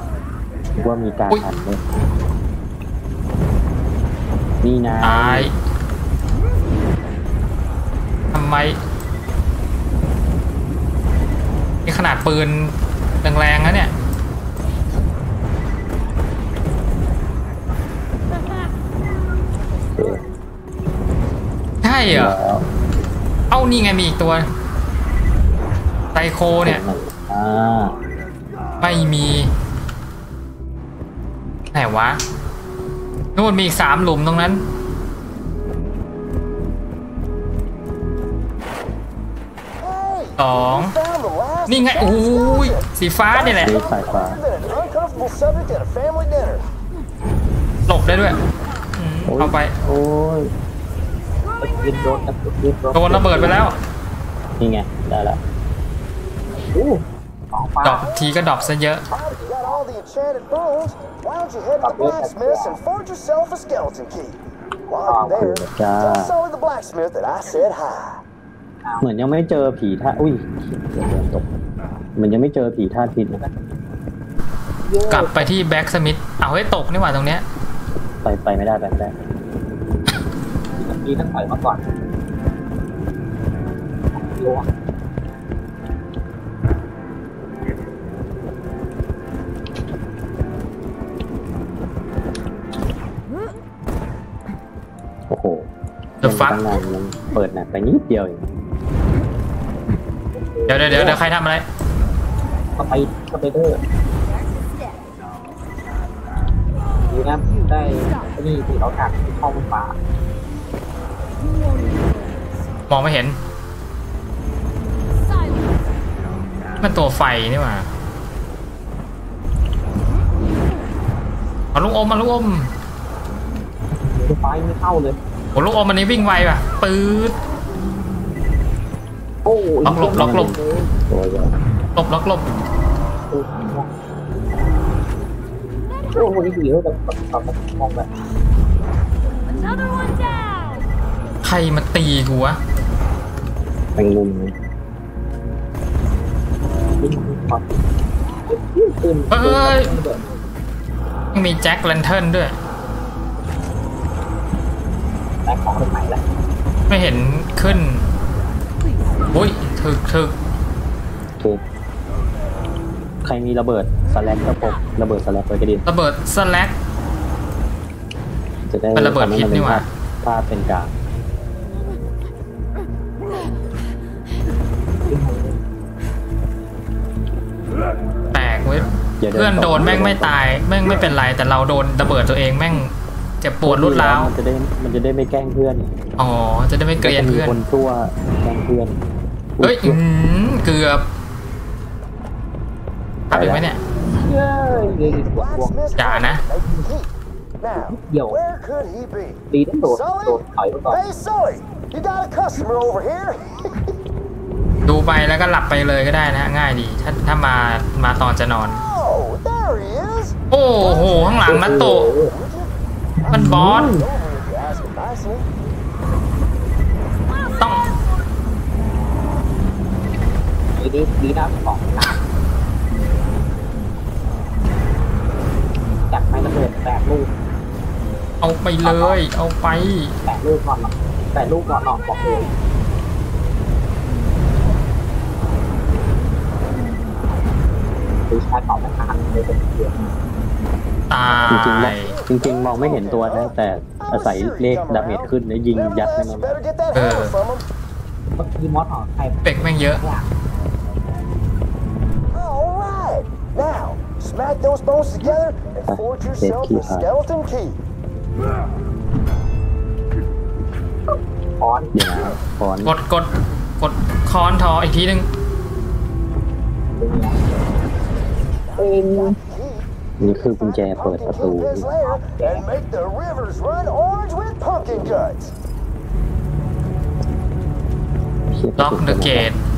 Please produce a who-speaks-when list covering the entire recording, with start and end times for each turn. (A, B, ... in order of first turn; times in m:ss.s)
0:00.8-0:01.8 A
0:04.6-0:05.5 A
0:05.0-0:05.6 B
0:08.3-0:08.8 B
0:11.9-0:13.9 B
0:19.9-0:20.2 A
0:21.8-0:22.4 B
0:22.1-0:22.7 A
0:23.5-0:24.5 B
0:26.1-0:26.8 B
0:26.6-0:28.0 A
0:28.8-0:29.5 B
0:31.7-0:32.2 B
0:33.4-0:34.6 B
0:39.8-0:46.6 C
0:40.4-0:41.0 B
0:41.7-0:43.8 B
0:43.6-0:44.4 A
0:47.9-0:48.4 B
0:49.0-0:49.8 B
0:49.3-0:50.5 A
0:51.6-0:53.7 D
0:52.9-0:53.8 B
0:54.6-0:55.4 A
0:56.7-0:58.1 D
0:57.8-0:59.1 B
0:58.2-1:08.2 C
0:59.1-0:59.8 D
1:01.8-1:02.8 D
1:05.0-1:05.5 D
1:05.2-1:06.3 A
1:09.0-1:11.5 A
1:12.2-1:13.4 A
1:13.3-1:13.6 D
1:14.8-1:15.5 D
1:15.1-1:17.4 B
1:18.2-1:19.2 A
1:20.8-1:21.8 D
1:24.1-1:24.7 D
1:35.3-1:35.7 A
1:36.2-1:38.5 A
1:36.2-1:36.6 B
1:40.3-1:41.2 D
1:40.7-1:41.7 B
1:42.8-1:43.8 D
1:47.1-1:50.0 D
1:51.8-1:52.5 E
1:52.9-1:53.4 B
1:55.2-1:55.9 E
1:56.8-1:57.9 B
2:01.7-2:02.7 B
2:03.9-2:05.2 D
2:05.5-2:07.4 B
2:09.4-2:10.9 D
2:09.8-2:10.5 B
2:09.9-2:11.6 A
2:12.0-2:12.5 B
2:13.3-2:13.9 D
2:16.1-2:18.1 D
2:19.5-2:20.7 E
2:21.4-2:22.6 B
2:24.0-2:24.6 A
2:27.0-2:27.8 D
2:28.5-2:30.3 D
2:29.3-2:29.9 B
2:31.3-2:32.6 B
2:35.4-2:36.2 D
2:36.9-2:38.1 B
2:39.3-2:40.4 B
2:43.2-2:45.8 A
2:45.9-2:46.8 B
2:48.7-2:51.0 A
2:49.0-2:49.9 B
2:55.1-2:55.6 D
2:58.3-3:04.3 B
2:59.2-3:00.4 A
3:03.6-3:05.9 A
3:06.2-3:07.6 B
3:07.0-3:09.0 A
3:09.6-3:10.0 A
3:09.6-3:11.0 B
3:13.3-3:13.8 B
3:13.3-3:13.7 A
3:14.1-3:15.8 D
3:14.9-3:17.1 C
3:16.0-3:16.4 B
3:17.6-3:23.9 C
3:17.8-3:18.4 D
3:19.5-3:21.0 D
3:24.9-3:28.8 B
3:28.7-3:30.4 C
3:30.5-3:32.1 B
3:31.4-3:32.3 D
3:32.2-3:32.7 C
3:33.2-3:34.0 D
3:33.2-3:35.5 C
3:33.3-3:33.9 B
3:37.6-3:37.9 B
3:40.8-3:42.2 D
3:46.1-3:47.3 D
3:48.4-3:50.2 B
3:48.8-3:49.2 D
3:50.2-3:52.5 D
3:58.3-4:00.1 D
4:01.1-4:02.1 B
4:01.3-4:07.6 C
4:01.5-4:06.5 A
4:06.9-4:07.4 B
4:08.4-4:10.3 D
4:09.4-4:10.0 B
4:12.3-4:17.8 C
4:15.9-4:17.1 A
4:21.6-4:21.9 D
4:21.9-4:23.0 A
4:22.8-4:23.3 B
4:23.8-4:25.3 B
4:27.0-4:27.4 D
4:28.7-4:35.5 C
4:28.8-4:29.4 D
4:30.2-4:31.9 A
4:32.0-4:32.7 D
4:38.5-4:39.5 A
4:38.8-4:39.6 B